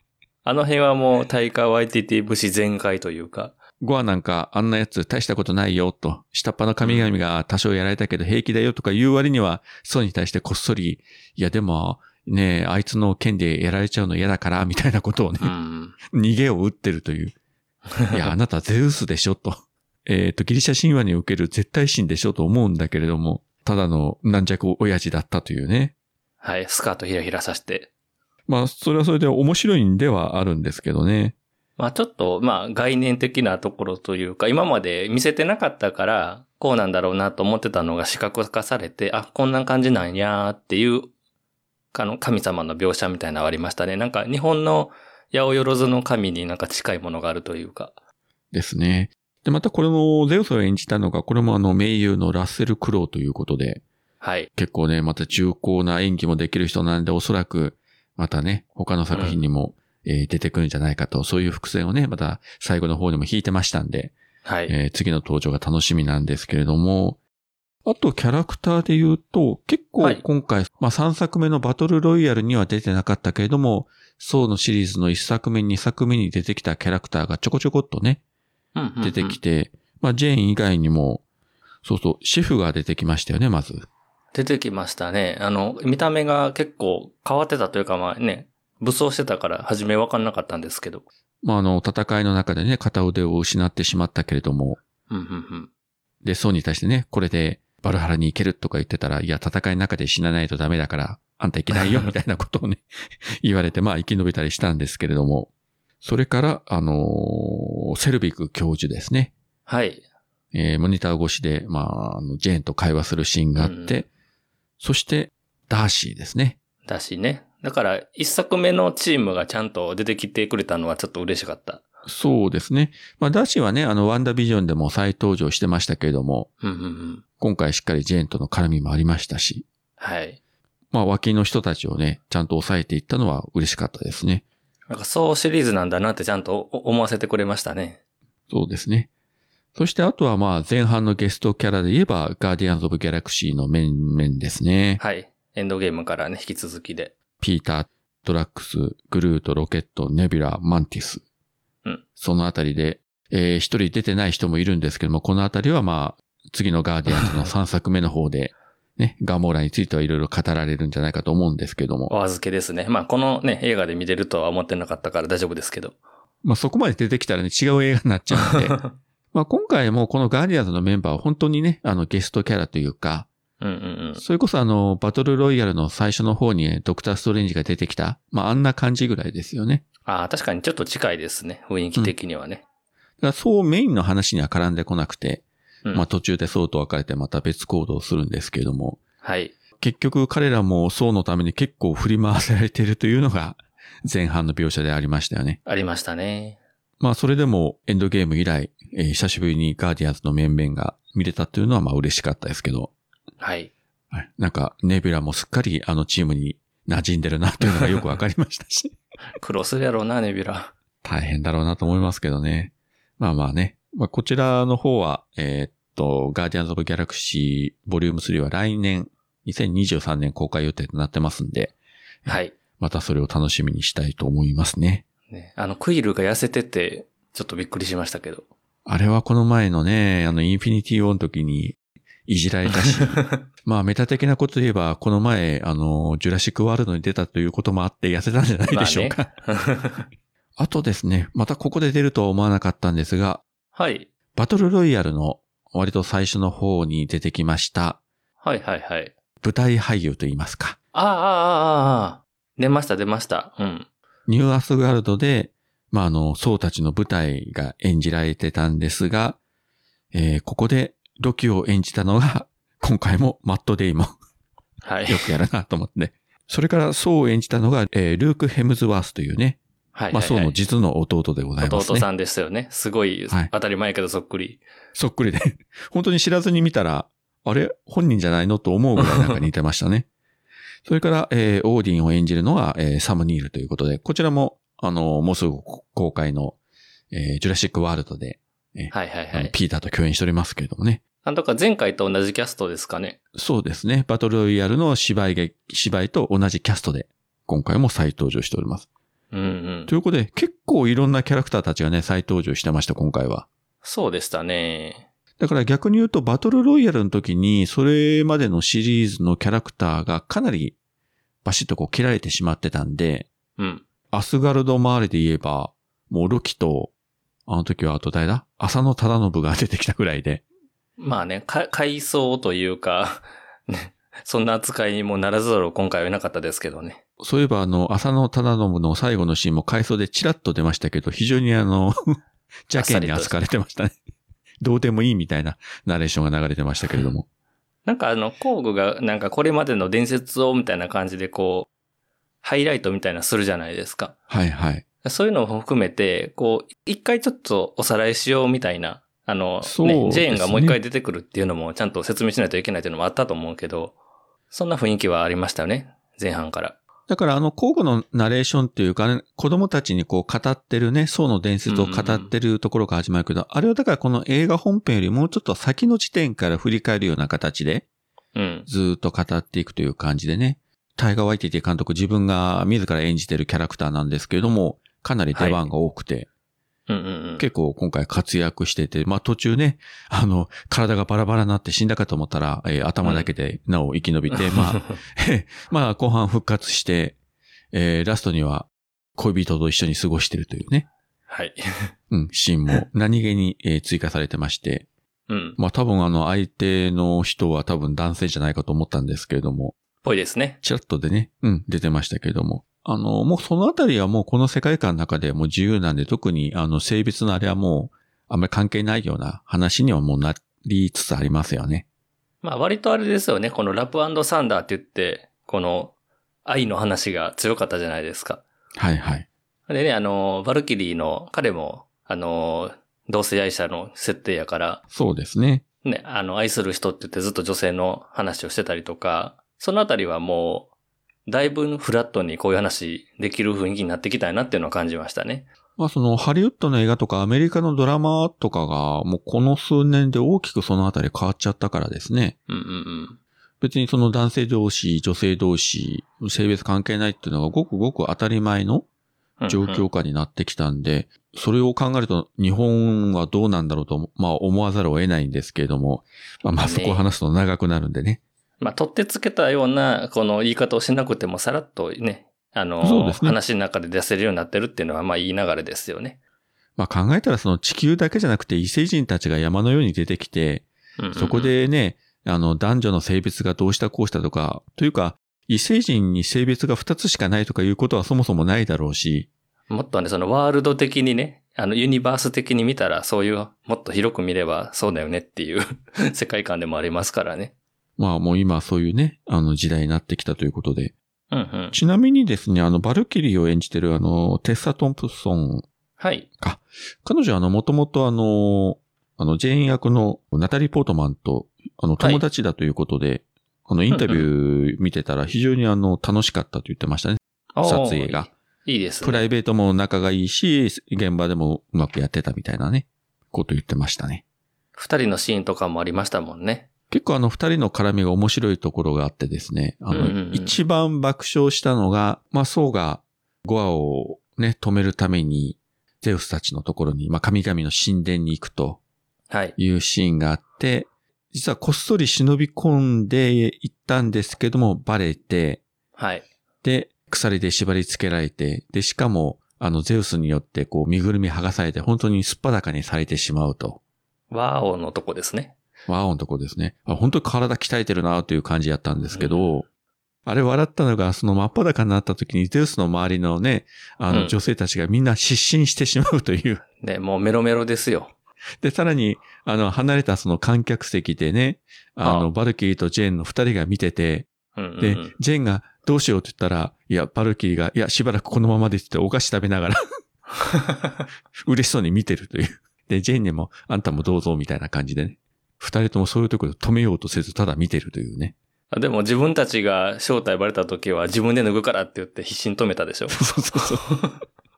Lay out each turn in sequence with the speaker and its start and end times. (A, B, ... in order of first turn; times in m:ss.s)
0:00.4-0:03.6 A
0:03.8-0:15.5 B
0:06.8-0:07.1 A
0:15.4-0:16.0 A
0:16.1-0:17.4 B
0:18.0-0:18.2 A
0:18.1-0:25.9 B
0:26.4-0:27.9 A
0:28.5-0:31.4 B
0:31.8-0:41.1 A
0:41.9-0:47.9 A
0:48.5-0:53.8 B
0:54.2-0:54.5 A
0:54.6-1:04.2 B
0:59.1-0:59.4 A
1:04.4-1:04.7 A
1:04.7-1:07.2 B
1:07.8-1:18.2 B
1:18.8-1:19.4 A
1:19.0-1:21.2 B
1:21.8-1:23.9 B
1:24.3-1:31.0 A
1:31.4-1:34.8 B
1:35.1-1:35.7 A
1:36.2-1:42.8 B
1:41.8-1:42.1 A
1:43.4-1:45.5 B
1:46.0-1:49.3 B
1:49.7-1:50.0 A
1:50.5-1:54.1 B
1:53.6-1:54.0 A
1:54.8-1:56.6 B
1:56.9-2:01.8 A
2:02.0-2:06.5 B
2:06.6-2:07.2 A
2:07.4-2:09.6 B
2:10.0-2:10.4 A
2:10.9-2:14.4 B
2:14.9-2:18.0 A
2:18.5-2:19.1 B
2:19.8-2:25.0 B
2:25.0-2:27.1 A
2:27.4-2:31.2 B
2:32.2-2:42.1 B
2:37.1-2:37.5 A
2:42.1-2:46.0 A
2:46.4-2:48.8 B
2:48.4-2:48.8 A
2:49.3-2:53.3 B
2:53.6-2:54.2 A
2:54.2-2:59.8 B
3:00.1-3:02.6 A
3:03.2-3:09.0 B
3:09.2-3:09.6 A
3:09.8-3:15.6 B
3:15.7-3:16.6 A
3:17.0-3:22.9 B
3:23.4-3:23.7 A
3:24.1-3:28.9 B
3:27.6-3:28.0 A
3:29.4-3:30.7 A
3:31.0-3:41.7 B
3:42.3-3:45.0 B
3:42.3-3:42.6 A
3:45.3-3:48.5 A
3:48.9-3:59.3 B
3:52.7-3:53.4 A
3:58.7-4:00.1 A
4:00.6-4:03.4 B
4:03.8-4:04.1 A
4:04.4-4:08.0 B
4:08.4-4:09.1 A
4:09.4-4:10.8 B
4:10.9-4:13.9 A
4:14.3-4:19.4 B
4:20.1-4:24.1 B
4:24.8-4:25.3 A
4:25.1-4:29.6 B
4:30.0-4:30.6 A
4:30.1-4:32.1 B
4:31.6-4:34.6 A
4:35.0-4:40.1 B
4:39.0-4:39.4 A
4:40.9-4:46.6 B
4:47.1-4:51.0 B
4:48.9-4:49.5 A
4:51.2-4:53.2 A
4:53.4-4:58.9 B
4:59.3-4:59.9 A
4:59.9-5:03.5 B
5:03.8-5:05.1 A
5:05.4-5:10.8 B
5:11.4-5:13.3 B
5:13.6-5:13.8 A
5:14.1-5:16.9 B
5:17.5-5:20.4 B
5:21.0-5:27.0 A
5:27.2-5:32.0 B
5:32.7-5:34.0 B
5:32.8-5:33.4 A
5:34.6-5:37.3 B
5:37.9-5:41.7 A
5:42.4-5:44.2 A
5:44.3-5:44.8 B
5:45.0-5:54.0 A
5:49.6-5:50.8 B
5:54.5-5:56.8 A
5:57.1-6:07.9 B
6:01.7-6:02.3 A
6:08.4-6:08.7 A
6:08.7-6:16.3 B
6:15.3-6:15.7 A
6:16.9-6:17.5 A
6:17.4-6:27.2 B
6:23.0-6:23.3 A
6:24.3-6:25.0 A
6:27.7-6:30.9 B
6:31.3-6:31.9 A
6:32.1-6:34.9 B
6:35.3-6:35.6 A
6:35.6-6:39.8 B
6:40.0-6:40.6 A
6:40.6-6:51.8 B
6:52.4-6:55.9 A
6:56.4-6:58.4 A
6:58.8-6:59.3 B
6:59.7-7:04.8 A
7:04.9-7:05.6 B
7:05.8-7:10.7 A
7:11.3-7:15.5 A
7:15.8-7:22.4 B
7:22.5-7:23.2 A
7:23.6-7:28.9 B
7:29.4-7:29.8 A
7:29.5-7:38.2 B
7:36.6-7:37.0 A
7:38.6-7:46.2 A
7:42.8-7:43.4 B
7:46.8-7:59.3 B
7:51.0-7:51.5 A
7:59.7-8:07.5 A
8:08.0-8:10.9 B
8:11.3-8:11.8 A
8:11.7-8:15.7 B
8:16.0-8:16.3 A
8:16.4-8:28.3 B
8:22.0-8:22.2 A
8:23.9-8:24.3 A
8:27.6-8:29.3 A
8:29.0-8:34.2 B
8:34.8-8:36.7 A
8:36.9-8:48.8 B
8:39.9-8:40.6 A
8:49.3-8:49.6 A
8:49.6-8:55.6 B
8:56.0-8:56.3 A
8:56.6-9:03.8 B
9:04.3-9:05.6 A
9:05.9-9:09.7 B
9:09.1-9:09.5 A
9:10.3-9:16.6 B
9:14.1-9:14.4 A
9:16.8-9:18.1 A
9:18.6-9:24.3 B
9:22.0-9:22.3 A
9:24.6-9:25.1 A
9:24.8-9:29.8 B
9:30.4-9:31.0 A
9:31.4-9:38.4 B
9:38.7-9:44.2 A
9:43.1-9:43.8 B